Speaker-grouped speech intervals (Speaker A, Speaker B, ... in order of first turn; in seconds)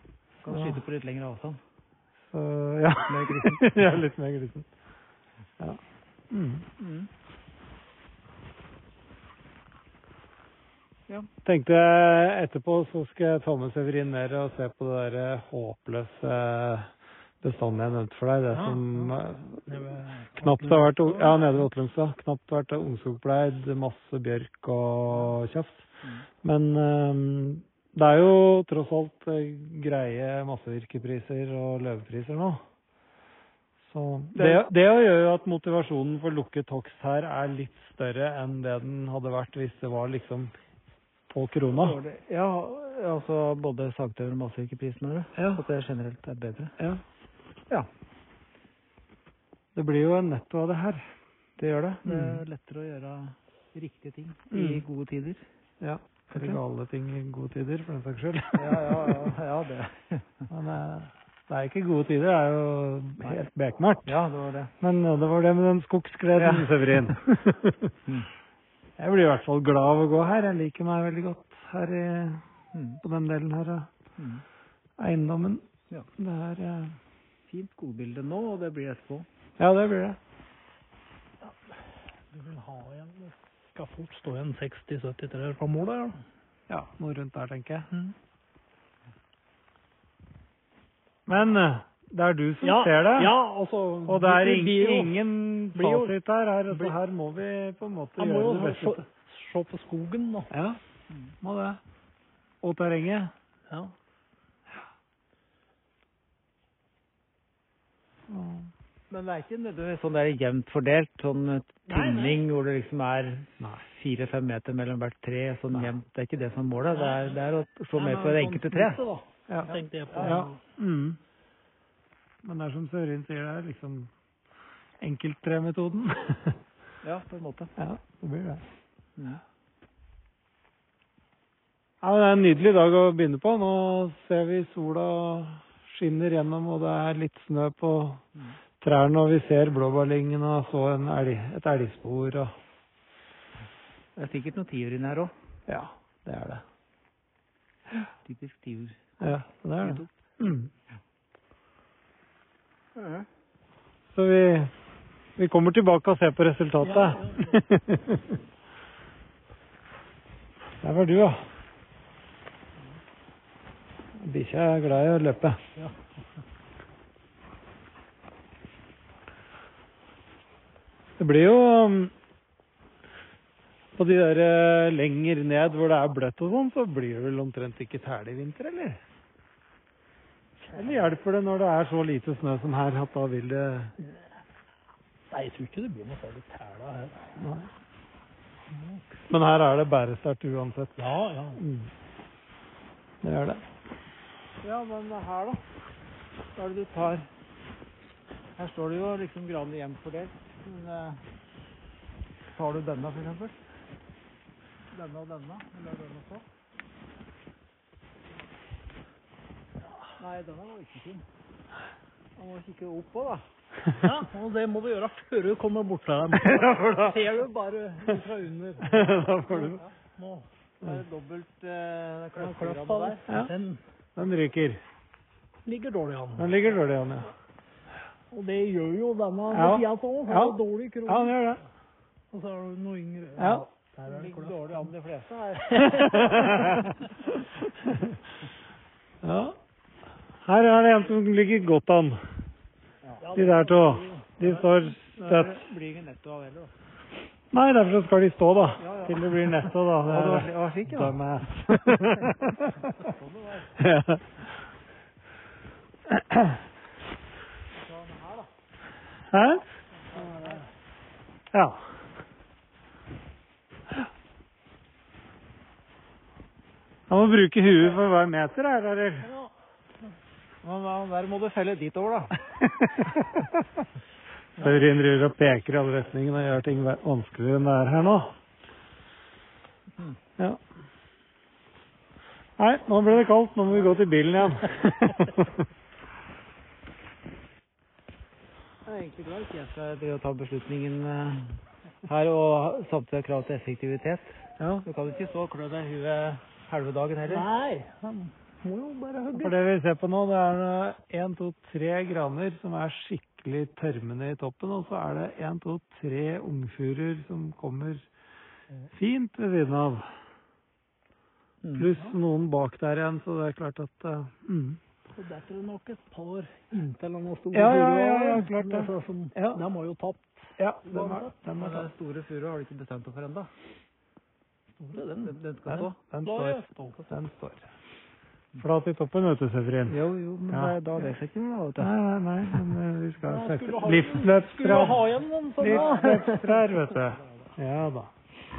Speaker A: 0.4-1.6, 3.1-3.9, 6.8-7.1, 34.3-34.7, 41.8-46.7, 51.6-55.4, 56.3-56.6, 58.5-60.5, 64.0-64.7, 66.4-67.1, 72.7-73.0, 74.2-74.4, 77.5-79.3, 109.1-119.0, 119.6-120.5, 127.0-127.7, 144.2-145.3, 148.2-149.3, 149.8-150.1, 152.9-153.3, 194.6-195.6, 196.5-197.3, 198.6-201.2, 202.5-203.6, 204.9-206.4, 210.2-211.2, 212.4-213.4, 220.8-223.2, 234.1-235.7, 245.1-246.7, 248.8-251.2, 253.0-253.7, 257.9-258.4, 270.6-272.3, 288.9-297.5, 311.6-311.9, 321.5-323.5, 325.2-326.0, 329.9-331.9
Speaker B: 0.5-0.8, 2.3-4.7, 6.3-6.6, 11.4-16.9, 17.4-19.6, 20.4-25.8, 26.4-32.6, 33.9-40.5, 41.3-42.0, 45.3-45.6, 49.7-51.0, 52.0-52.4, 54.5-54.8, 55.8-59.3, 60.5-64.2, 64.8-67.9, 69.0-72.4, 73.0-73.9, 75.0-75.7, 76.2-76.9, 79.6-80.2, 86.7-87.9, 91.3-93.3, 94.1-99.0, 100.5-100.8, 101.4-101.8, 102.6-103.3, 108.3-108.7, 113.6-113.8, 119.5-121.2, 122.4-124.1, 125.0-126.6, 127.8-128.6, 132.0-138.2, 138.8-142.5, 145.7-146.6, 149.2-150.7, 154.1-154.7, 155.4-158.3, 160.8-161.4, 164.2-165.6, 171.2-172.1, 173.9-179.0, 180.7-183.9, 187.4-187.7, 189.3-191.0, 191.6-191.9, 193.2-193.6, 216.4-217.2, 218.1-219.8, 224.2-224.8, 226.4-227.3, 229.5-231.6, 233.4-233.6, 235.7-238.0, 239.2-239.5, 240.4-242.2, 243.3-245.6, 247.5-253.0, 253.8-254.2, 256.1-256.5, 259.3-259.6, 261.5-261.8, 267.1-269.3, 272.6-273.5, 274.6-278.3, 282.6-285.6, 294.6-294.8, 299.3-308.0, 308.9-310.1, 311.7-314.8, 317.5-319.6, 320.6-321.9, 325.7-327.6, 328.6-329.9, 330.5-330.8, 331.8-335.0, 335.6-338.1
Speaker C: 18.5-19.1, 19.7-21.5, 82.3-86.2, 92.6-95.1, 95.7-96.2, 96.7-97.0, 98.2-100.5, 103.7-103.9, 111.9-112.4, 117.9-120.5, 156.8-157.6, 185.3-187.3, 188.7-189.0, 191.0-191.6, 214.0-220.4, 222.4-223.8, 225.7-226.7, 228.3-231.5, 232.3-234.9, 235.6-236.6, 243.2-244.6, 260.1-260.6, 269.2-269.5, 297.2-299.6, 315.1-321.4, 324.8-325.4, 326.2-327.0, 333.2-336.7